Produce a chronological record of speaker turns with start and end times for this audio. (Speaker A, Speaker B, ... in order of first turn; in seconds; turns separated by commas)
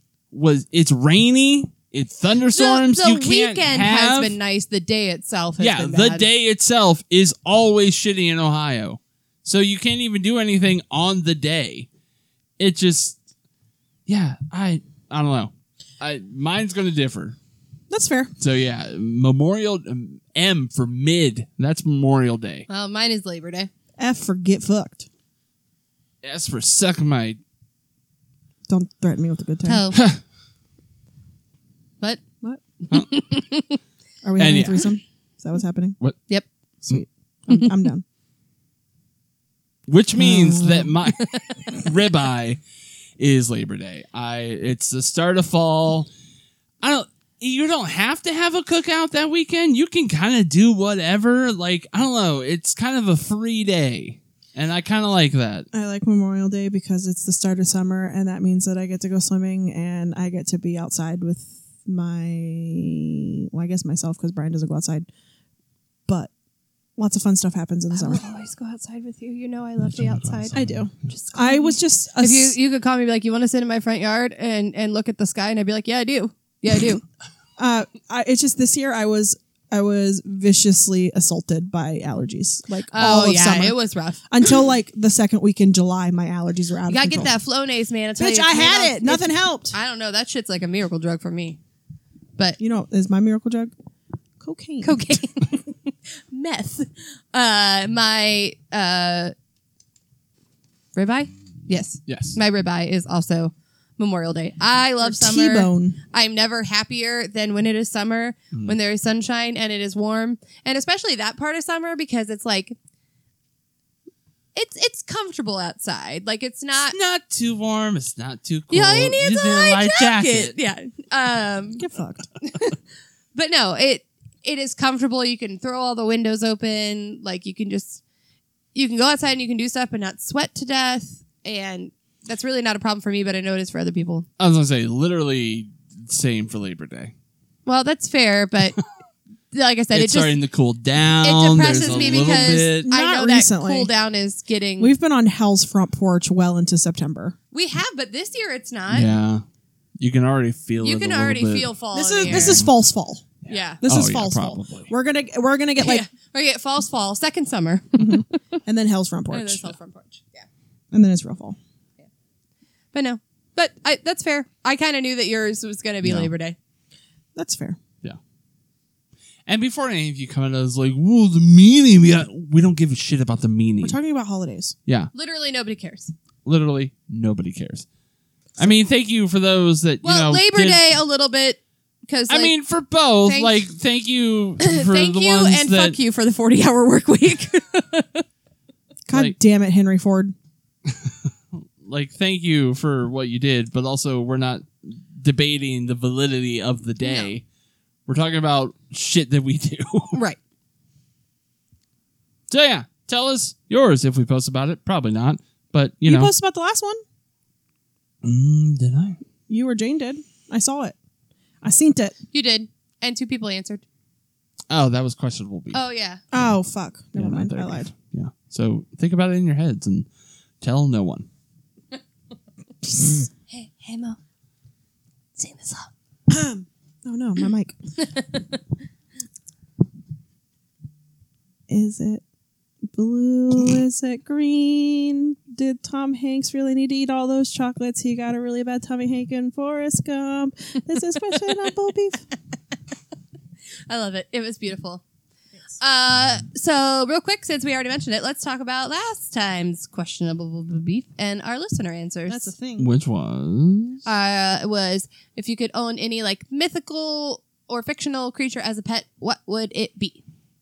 Speaker A: 0.3-4.4, Speaker B: 2.5-6.3, Speaker A: 5.6-11.9, Speaker A: 12.6-13.2, Speaker A: 14.1-17.4, Speaker C: 17.9-18.3, Speaker A: 18.4-22.7, Speaker B: 22.7-23.7, Speaker C: 24.0-25.1, Speaker A: 26.2-27.4, Speaker C: 28.7-29.8, Speaker B: 29.6-30.0, Speaker A: 29.9-30.2, Speaker B: 32.9-33.8, Speaker C: 34.2-36.0, Speaker A: 34.4-34.9, Speaker C: 36.9-38.0, Speaker A: 39.9-42.6, Speaker C: 40.2-41.0, Speaker B: 41.2-41.7, Speaker A: 43.2-46.1, Speaker A: 46.8-55.7, Speaker C: 55.7-65.1, Speaker C: 67.0-68.2, Speaker B: 67.9-77.0, Speaker A: 69.8-70.9, Speaker C: 70.5-72.6, Speaker C: 77.6-83.8, Speaker B: 82.9-84.2, Speaker C: 84.3-87.3, Speaker B: 86.9-91.6, Speaker C: 88.2-89.7, Speaker C: 92.6-93.7, Speaker C: 94.4-95.2, Speaker B: 94.8-99.3, Speaker B: 101.0-112.8, Speaker A: 102.1-102.4, Speaker C: 105.0-106.0, Speaker B: 114.5-117.0, Speaker A: 116.9-120.5, Speaker B: 118.7-121.9, Speaker C: 121.8-122.3, Speaker B: 122.4-122.8, Speaker B: 123.3-128.0, Speaker B: 128.7-134.3, Speaker A: 134.4-137.1, Speaker B: 137.7-138.8, Speaker B: 139.5-140.3, Speaker A: 139.9-142.9, Speaker B: 141.2-144.9, Speaker C: 141.6-143.9, Speaker C: 144.8-147.3, Speaker B: 147.5-149.1, Speaker A: 148.9-149.4, Speaker A: 150.0-151.7, Speaker B: 150.8-152.6, Speaker C: 151.9-153.2, Speaker A: 152.2-152.7, Speaker A: 153.4-154.9, Speaker B: 153.5-153.8, Speaker C: 153.8-156.1, Speaker B: 155.8-158.2, Speaker C: 158.0-159.8, Speaker B: 159.3-160.5, Speaker C: 160.9-161.6, Speaker B: 162.9-166.6, Speaker A: 166.0-166.3, Speaker C: 167.4-167.8, Speaker A: 169.5-174.0, Speaker C: 173.8-174.8, Speaker B: 175.1-176.1, Speaker A: 176.4-177.9, Speaker A: 178.6-180.8, Speaker B: 180.0-182.5, Speaker A: 182.3-186.0, Speaker B: 183.3-183.6, Speaker B: 184.6-188.2, Speaker C: 189.1-190.3, Speaker A: 190.9-197.4, Speaker B: 197.0-197.3, Speaker A: 198.1-200.2, Speaker B: 200.1-200.4, Speaker A: 202.5-206.3, Speaker C: 206.1-207.0, Speaker A: 208.2-209.2, Speaker C: 209.5-211.0, Speaker C: 211.6-212.2, Speaker B: 212.3-213.8, Speaker A: 214.7-215.8, Speaker B: 215.7-216.2, Speaker C: 216.3-217.9, Speaker A: 217.2-220.1, Speaker A: 220.6-221.3, Speaker C: 222.9-223.3, Speaker B: 223.5-224.2, Speaker B: 225.4-225.9, Speaker C: 226.3-227.8, Speaker B: 228.0-228.6, Speaker C: 231.7-232.2, Speaker C: 232.9-242.3, Speaker B: 243.9-245.0, Speaker B: 245.8-252.5, Speaker C: 252.3-252.9, Speaker A: 252.8-254.0, Speaker B: 254.1-260.2